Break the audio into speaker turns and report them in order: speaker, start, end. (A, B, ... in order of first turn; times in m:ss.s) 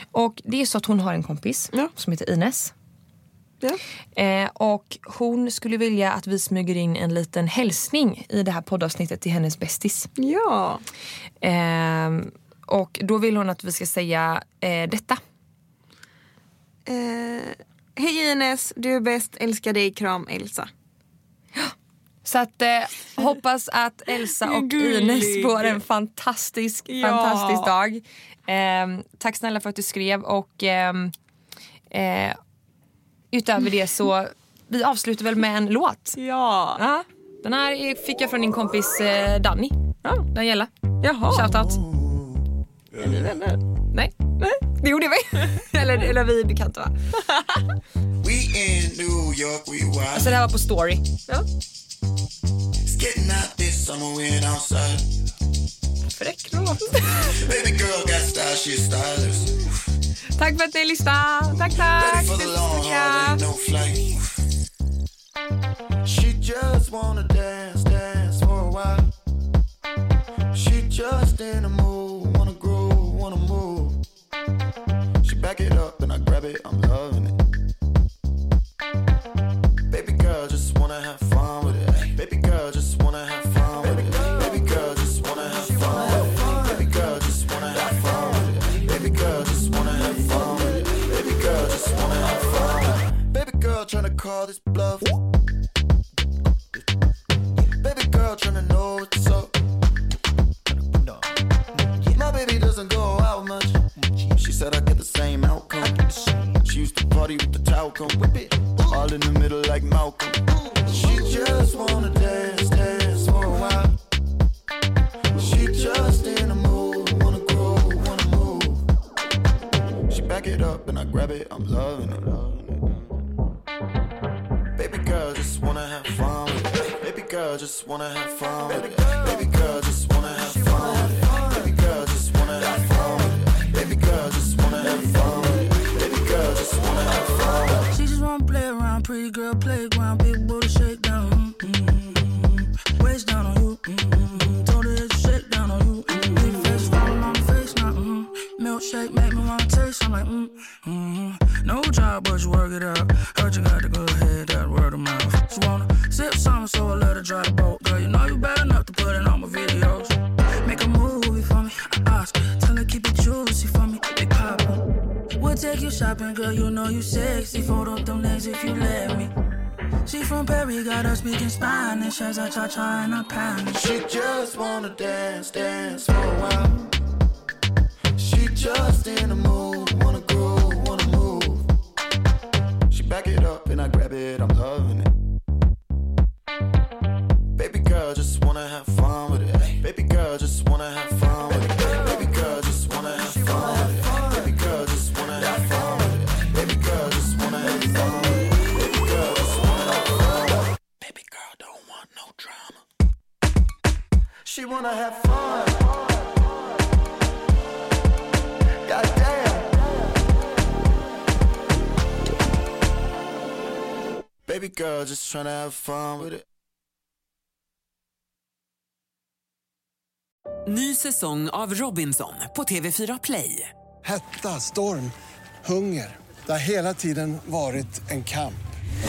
0:00.1-0:02.7 A
0:04.1-0:10.1 A
0:10.2-0:10.8 B
0:11.4-0:15.2 A
0:16.9-0:20.7 B
0:22.2-0:31.1 A
0:24.2-0:25.8 B
0:26.9-0:27.7 B
0:31.9-0:32.4 A
0:33.3-0:36.2 A
0:36.2-0:36.8 B
0:36.8-0:39.8 A
0:40.3-0:40.7 A
0:41.0-0:41.7 B
0:41.2-0:41.8 A
0:41.9-0:42.3 C
0:43.0-0:43.6 B
0:43.9-0:47.0 A
0:48.2-0:50.4 C
0:50.1-0:51.1 A
0:52.8-0:55.0 C
0:56.2-0:57.3 A
0:57.3-0:59.5 C
1:00.4-1:03.4 A
1:01.7-1:04.2 C
1:06.0-1:09.1 C
1:10.5-1:14.0 C
1:15.2-1:17.4 C
1:19.9-1:35.2 C
1:37.7-1:39.5 C
1:42.0-1:46.1 C
1:46.6-1:54.0 C
1:55.4-1:58.8 C
2:00.1-2:03.0 C
2:04.8-2:17.9 C
2:17.9-2:44.9 D
2:45.4-2:49.3 D
2:50.1-2:53.8 D
2:53.7-2:56.9 C
2:58.2-3:01.7 C
3:02.9-3:05.1 C
3:07.6-3:22.8 C
3:24.4-3:26.2 C
3:28.8-3:29.8 C
3:34.4-3:36.4 C
3:40.7-3:43.7 E
3:44.0-3:45.1 F
3:45.6-3:48.6 F